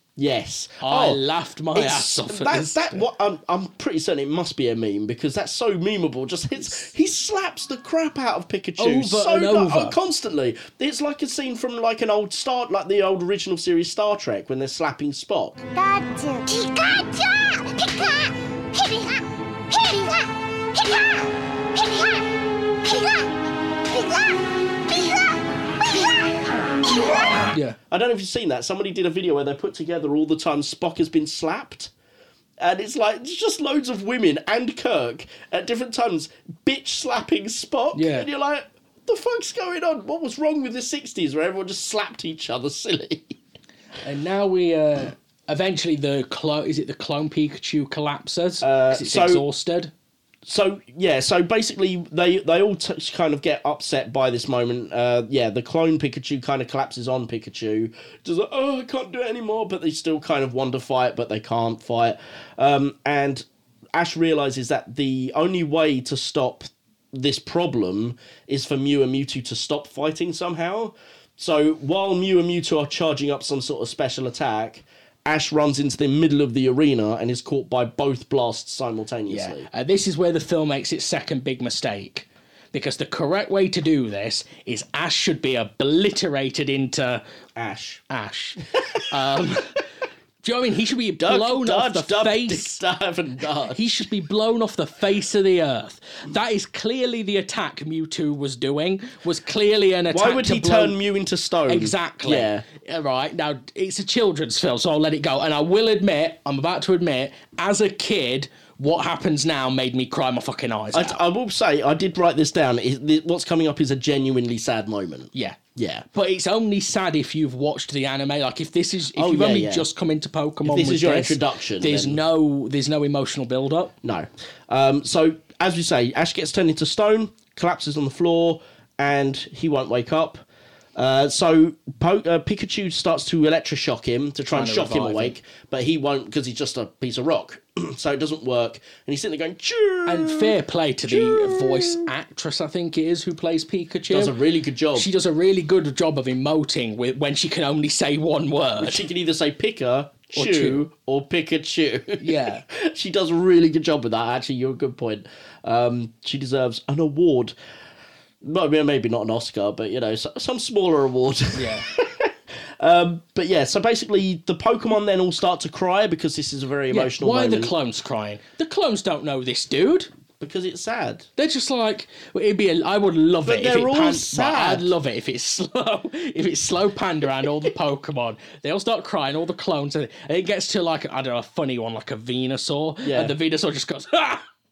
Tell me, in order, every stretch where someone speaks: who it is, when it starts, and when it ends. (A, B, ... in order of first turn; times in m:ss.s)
0:00.2-0:01.2 A
0:00.8-0:03.0 B
0:01.7-0:15.6 A
0:08.8-0:10.0 B
0:15.7-0:22.3 C
0:22.8-0:23.3 C
0:23.8-0:27.4 C
0:27.5-0:27.8 B
0:27.9-0:31.9 A
0:32.6-0:43.3 A
0:37.9-0:38.3 B
0:44.0-0:49.9 B
0:48.6-0:49.4 A
0:50.5-1:19.7 A
1:19.3-1:27.2 B
1:27.6-1:28.0 A
1:28.1-1:29.8 B
1:30.4-1:32.8 B
1:31.2-1:33.9 A
1:33.7-1:41.0 B
1:40.1-1:42.6 A
1:41.7-1:51.2 B
1:50.9-1:56.0 A
1:55.3-1:55.6 B
1:56.1-2:03.9 B
1:59.1-1:59.9 A
2:00.6-2:02.2 A
2:04.0-2:10.4 A
2:11.0-2:20.5 A
2:14.5-2:15.4 B
2:20.0-2:24.3 B
2:21.1-2:22.1 A
2:24.1-2:25.1 A
2:24.9-2:29.0 B
2:28.8-2:37.5 A
2:30.3-2:30.8 B
2:32.2-2:32.6 B
2:38.4-2:47.7 A
2:41.6-2:41.9 B
2:46.9-2:50.1 B
2:50.4-2:51.3 A
2:51.4-3:04.4 B
2:53.4-2:54.9 A
3:03.0-3:03.3 A